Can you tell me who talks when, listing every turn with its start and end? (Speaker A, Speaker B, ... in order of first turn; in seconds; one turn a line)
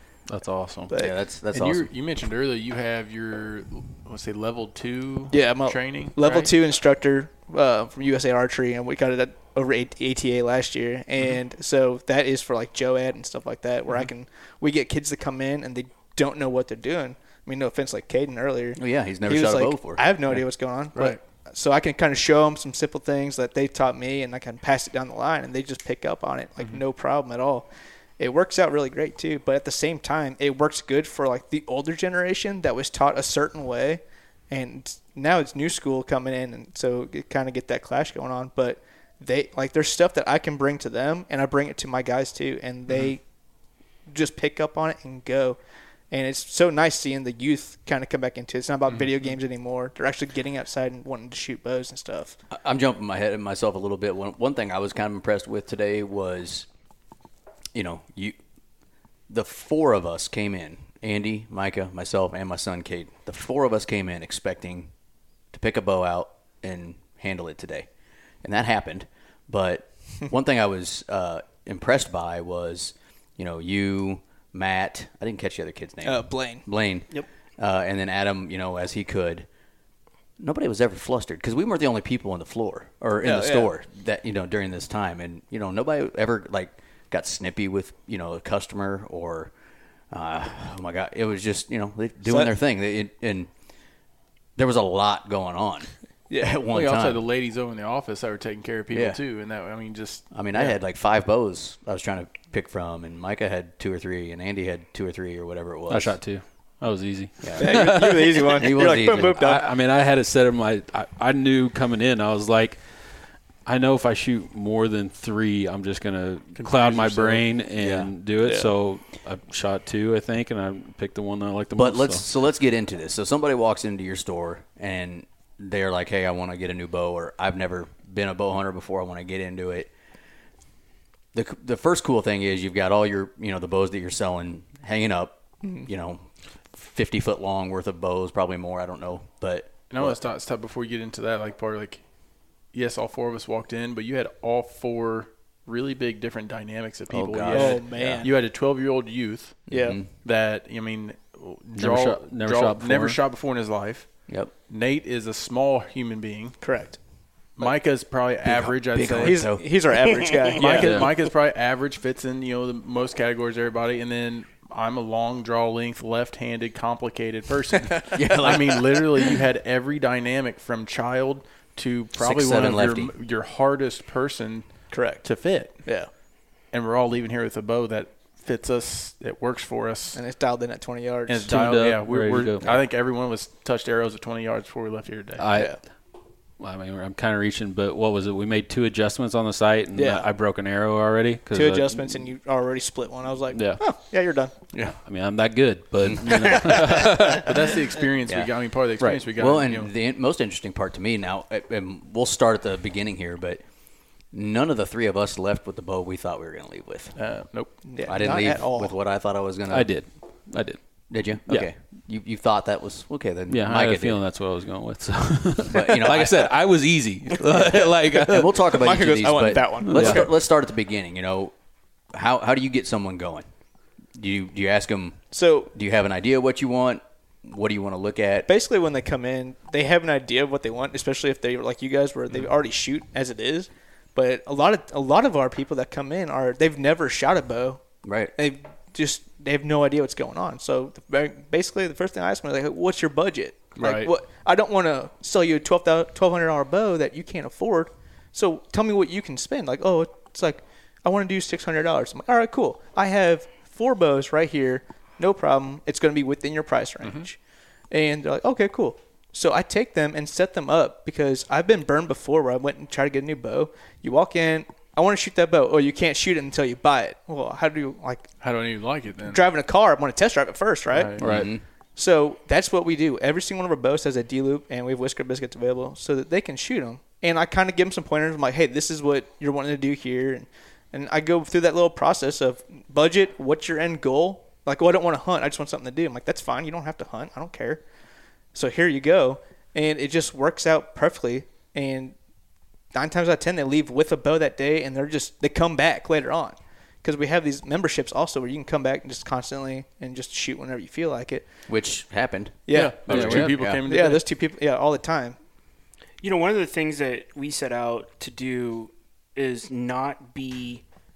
Speaker A: 0.3-0.9
Speaker B: 0.9-1.2
Speaker C: 0.9-1.9
Speaker D: 1.5-6.5
Speaker B: 5.3-43.2
Speaker C: 18.8-20.4
Speaker D: 20.9-21.2
Speaker B: 44.1-45.6
Speaker B: 46.1-52.4
Speaker D: 48.9-49.3
Speaker C: 52.5-56.7
Speaker C: 57.7-58.4
Speaker C: 59.3-64.9
Speaker C: 65.5-67.9
Speaker C: 68.4-79.5
Speaker B: 76.0-76.7
Speaker C: 80.4-89.5
Speaker B: 83.2-83.7
Speaker C: 90.1-93.5
Speaker B: 92.2-92.5
Speaker C: 94.6-97.2
Speaker B: 96.3-96.6
Speaker D: 96.7-100.6
Speaker C: 98.9-99.2
Speaker C: 100.3-106.2
Speaker A: 105.9-122.3
Speaker C: 107.4-108.0
Speaker B: 107.6-109.7
Speaker C: 108.5-109.4
Speaker D: 116.5-117.5
Speaker C: 117.8-118.1
Speaker B: 118.4-118.7
Speaker C: 121.8-129.9
Speaker C: 131.3-140.2
Speaker B: 135.6-135.9
Speaker D: 139.9-142.1
Speaker D: 142.6-157.0
Speaker C: 147.1-148.3
Speaker B: 147.5-148.3
Speaker C: 149.7-150.2
Speaker B: 149.7-150.0
Speaker A: 151.8-153.2
Speaker C: 154.3-154.5
Speaker B: 156.6-157.0
Speaker D: 157.5-159.5
Speaker B: 157.6-158.3
Speaker C: 158.4-159.7
Speaker B: 159.1-161.3
Speaker D: 160.5-180.3
Speaker A: 160.8-161.1
Speaker C: 168.1-169.1
Speaker C: 172.2-173.2
Speaker B: 174.9-176.1
Speaker B: 180.1-181.5
Speaker D: 181.3-185.5
Speaker A: 181.5-182.8
Speaker A: 185.4-192.3
Speaker B: 185.5-185.8
Speaker B: 189.9-190.3
Speaker B: 191.5-194.6
Speaker A: 193.5-193.9
Speaker D: 194.7-195.0
Speaker A: 195.0-197.5
Speaker C: 196.0-196.7
Speaker B: 196.6-197.0
Speaker D: 196.8-199.9
Speaker C: 198.3-198.5
Speaker C: 199.3-203.6
Speaker C: 204.3-207.2
Speaker D: 207.2-208.0
Speaker B: 207.8-208.9
Speaker C: 208.0-210.0
Speaker A: 209.7-211.7
Speaker C: 211.1-214.2
Speaker A: 213.5-218.9
Speaker C: 215.7-216.5
Speaker C: 218.2-221.5
Speaker B: 218.7-220.3
Speaker A: 219.8-220.3
Speaker C: 222.1-223.5
Speaker C: 224.1-228.5
Speaker B: 225.3-225.7
Speaker B: 228.5-257.4
Speaker C: 238.0-238.3
Speaker D: 243.8-244.1
Speaker D: 257.0-257.3
Speaker B: 257.9-271.2
Speaker D: 268.4-269.4
Speaker D: 270.9-271.2
Speaker A: 271.2-271.5
Speaker C: 271.2-271.6
Speaker B: 272.0-287.8
Speaker B: 288.5-292.2
Speaker B: 292.9-301.5
Speaker C: 301.7-303.8
Speaker B: 302.7-305.4
Speaker D: 302.7-304.2
Speaker A: 303.1-303.7
Speaker E: 306.2-310.8